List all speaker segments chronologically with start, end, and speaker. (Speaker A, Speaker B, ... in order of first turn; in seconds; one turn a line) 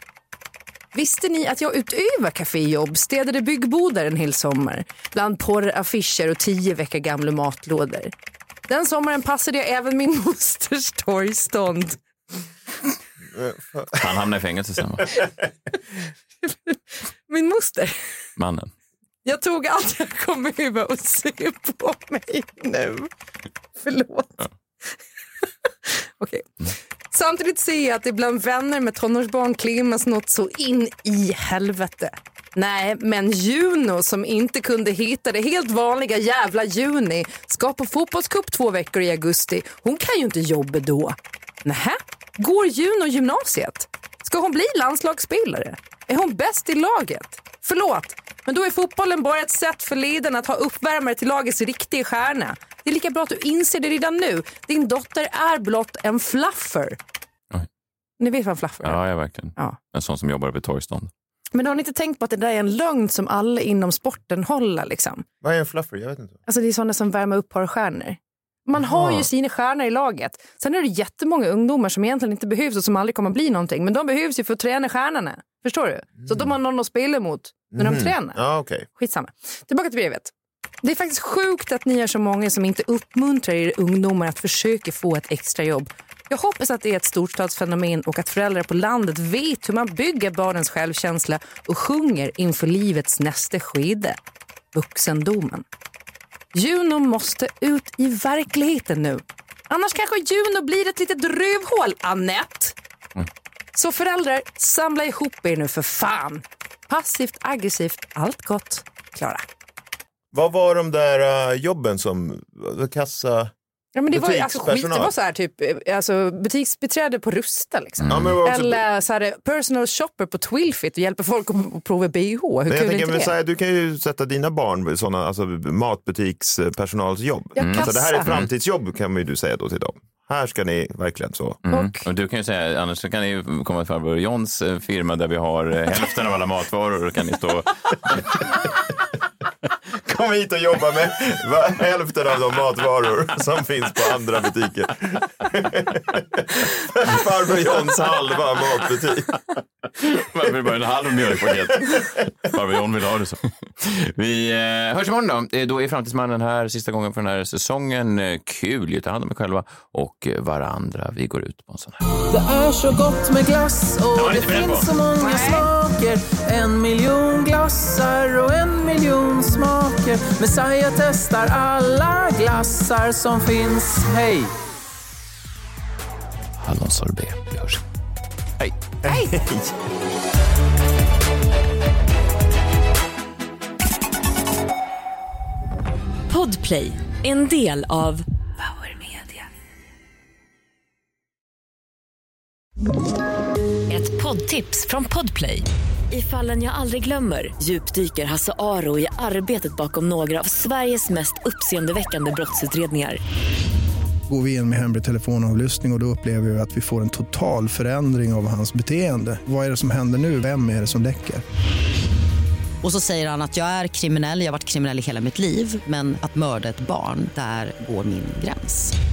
Speaker A: 0.9-8.1
Speaker A: 8.7-12.0
Speaker B: 13.3-14.0
Speaker C: 13.9-15.2
Speaker A: 16.4-18.2
Speaker C: 18.4-18.7
Speaker A: 19.2-23.1
Speaker A: 23.8-57.0
Speaker A: 58.2-59.0
Speaker C: 58.8-61.1
Speaker A: 61.5-65.2
Speaker B: 65.4-66.4
Speaker A: 66.5-78.4
Speaker B: 68.8-69.3
Speaker B: 77.7-78.9
Speaker A: 79.0-80.3
Speaker A: 80.8-94.2
Speaker A: 94.7-95.7
Speaker A: 96.5-102.8
Speaker A: 103.8-109.5
Speaker B: 110.3-113.5
Speaker A: 114.0-123.3
Speaker B: 114.1-115.1
Speaker C: 118.0-118.4
Speaker B: 118.1-118.8
Speaker B: 122.7-131.6
Speaker A: 127.6-128.3
Speaker C: 127.6-128.5
Speaker C: 131.7-138.2
Speaker A: 131.7-132.1
Speaker B: 139.9-149.3
Speaker C: 150.0-162.0
Speaker D: 162.3-174.5
Speaker C: 164.2-164.9
Speaker A: 165.2-165.7
Speaker C: 176.6-177.8
Speaker B: 179.0-179.8
Speaker A: 179.1-179.4
Speaker E: 186.3-189.4
Speaker E: 193.9-203.2
Speaker F: 204.3-211.4
Speaker G: 212.8-218.9